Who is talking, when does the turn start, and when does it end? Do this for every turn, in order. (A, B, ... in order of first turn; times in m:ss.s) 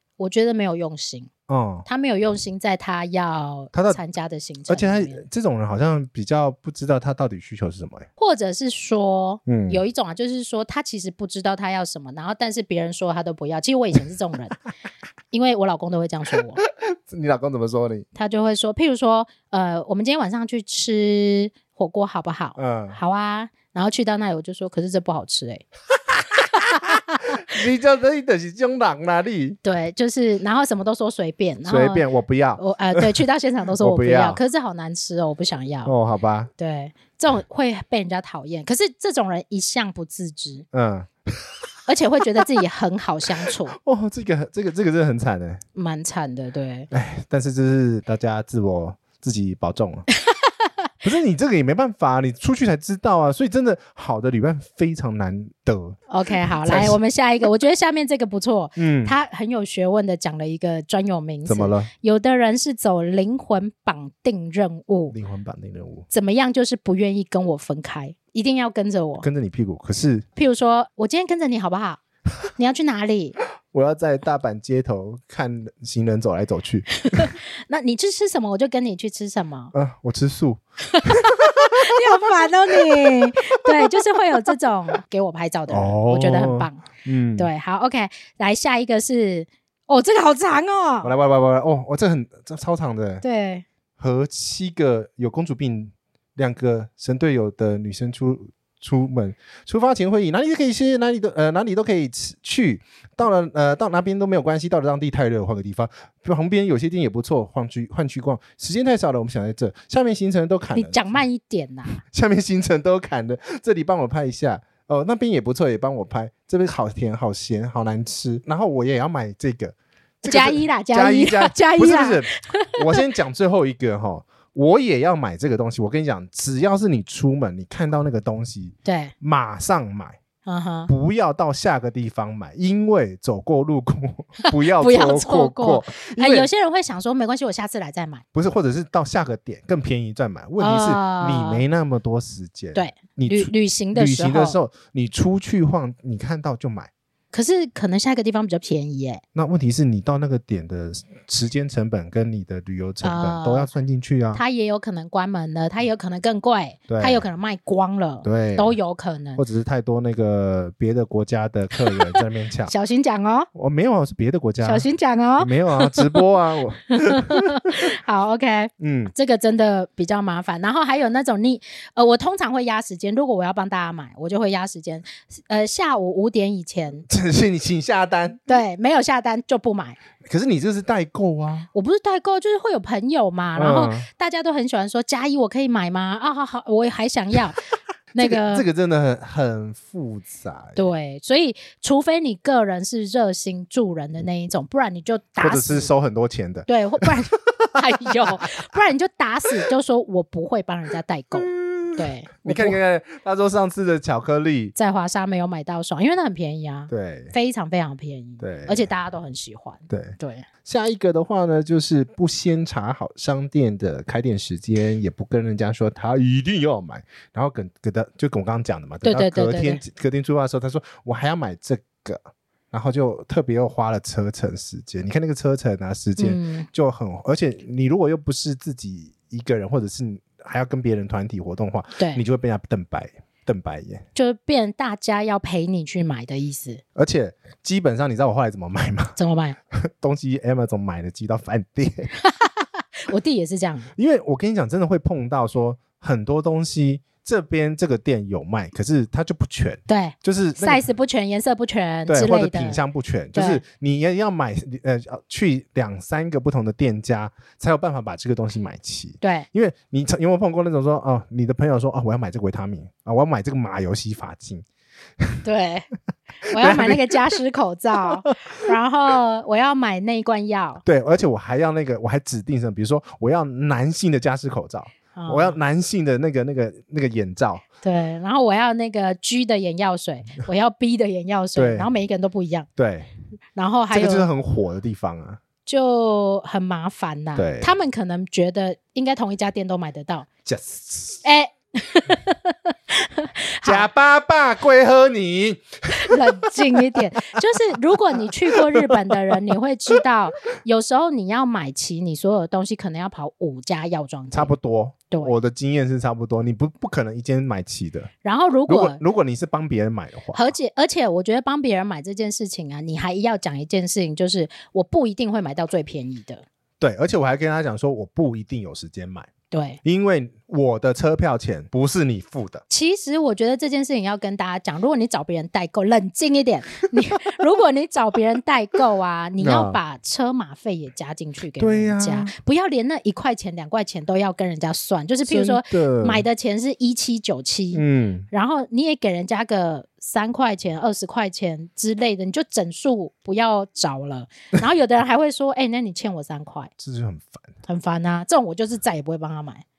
0:00.2-0:01.3 A
0:01.5-0:01.8 B
0:01.8-0:05.2 A
0:03.7-0:04.0 B
0:04.7-0:08.1 B
0:08.2-0:14.6 A
0:09.5-0:09.8 B
0:15.3-0:16.6 A
0:16.6-0:18.0 B
0:18.1-0:25.6 A
0:22.6-0:23.0 B
0:26.5-0:27.4 A
0:26.8-0:29.6 B
0:29.6-0:32.0 A
0:31.6-0:33.2 B
0:32.6-0:35.9 A
0:33.8-0:34.4 B
0:35.8-0:36.5 B
0:36.6-0:40.6 A
0:40.7-0:41.6 B
0:41.9-0:43.8 A
0:43.4-0:45.6 B
0:45.7-0:46.9 A
0:46.9-0:50.0 B
0:50.1-0:50.7 A
0:51.0-0:57.0 B
0:56.1-1:05.1 A
0:58.8-0:59.1 B
1:01.4-1:01.9 B
1:05.1-1:06.0 B
1:06.1-1:09.2 A
1:09.2-1:10.2 B
1:10.4-1:12.0 A
1:12.6-1:13.4 A
1:13.7-1:17.3 B
1:17.1-1:19.7 A
1:19.7-1:23.9 B
1:20.9-1:26.8 A
1:25.7-1:27.5 B
1:27.4-1:31.1 A
1:31.0-1:33.2 B
1:33.2-1:33.6 A
1:34.0-1:51.0 B
1:50.7-1:52.0 A
1:52.0-2:10.2 B
2:00.2-2:03.0 A
2:08.8-2:09.1 A
2:10.4-2:10.9 A
2:10.9-2:16.5 B
2:14.4-2:18.2 A
2:18.3-2:26.9 B
2:20.6-2:21.6 A
2:22.7-2:24.6 A
2:27.3-2:29.2 A
2:29.3-2:34.4 B
2:33.0-2:33.7 A
2:34.3-2:39.4 A
2:36.9-2:37.2 B
2:38.2-2:38.7 B
2:39.4-2:42.7 B
2:41.8-2:43.5 A
2:43.5-2:44.9 B
2:44.6-2:46.2 A
2:45.4-2:47.8 B
2:46.9-2:57.1 A
2:48.8-2:49.1 B
2:57.1-2:58.5 B
2:58.5-3:00.0 A
3:00.2-3:01.7 B
3:01.7-3:07.6 A
3:03.6-3:04.1 B
3:08.1-3:08.6 A
3:08.2-3:10.8 B
3:10.8-3:15.9 A
3:15.4-3:18.3 B
3:16.7-3:22.8 A
3:21.4-3:24.7 B
3:24.8-3:30.5 A
3:26.9-3:27.3 B
3:28.4-3:28.8 B
3:29.9-3:54.0 B
3:39.0-3:39.8 A
3:46.2-3:46.7 A
3:54.1-3:56.8 A
3:56.9-3:59.2 B
3:59.2-3:59.6 A
3:59.7-4:02.1 B
4:02.2-4:03.9 A
4:04.0-4:10.8 B
4:09.9-4:12.8 A
4:12.1-4:24.6 B
4:13.3-4:13.6 A
4:19.2-4:19.5 A
4:25.4-4:25.9 A
4:26.4-4:30.8 A
4:26.6-4:27.4 B
4:28.0-4:28.3 B
4:30.8-4:37.6 B
4:35.1-4:35.6 A
4:37.8-4:42.7 A
4:41.5-4:41.9 B
4:42.8-4:43.1 B
4:43.6-4:44.3 A
4:43.9-4:45.4 B
4:45.6-4:50.3 A
4:47.4-4:47.7 B
4:50.4-4:51.2 B
4:51.2-4:53.9 A
4:53.6-4:57.4 B
4:55.9-5:04.5 A
4:58.1-4:59.5 B
5:04.3-5:08.1 B
5:05.1-5:05.4 A
5:08.2-5:09.0 A
5:08.7-5:10.5 B
5:10.3-5:16.4 A
5:16.8-5:19.3 B
5:19.5-5:19.8 A
5:19.8-5:22.6 B
5:22.7-5:46.7 A
5:29.4-5:29.8 B
5:31.6-5:32.3 B
5:35.2-5:36.2 B
5:37.7-5:38.3 B
5:46.8-5:47.5 B
5:47.6-5:49.6 A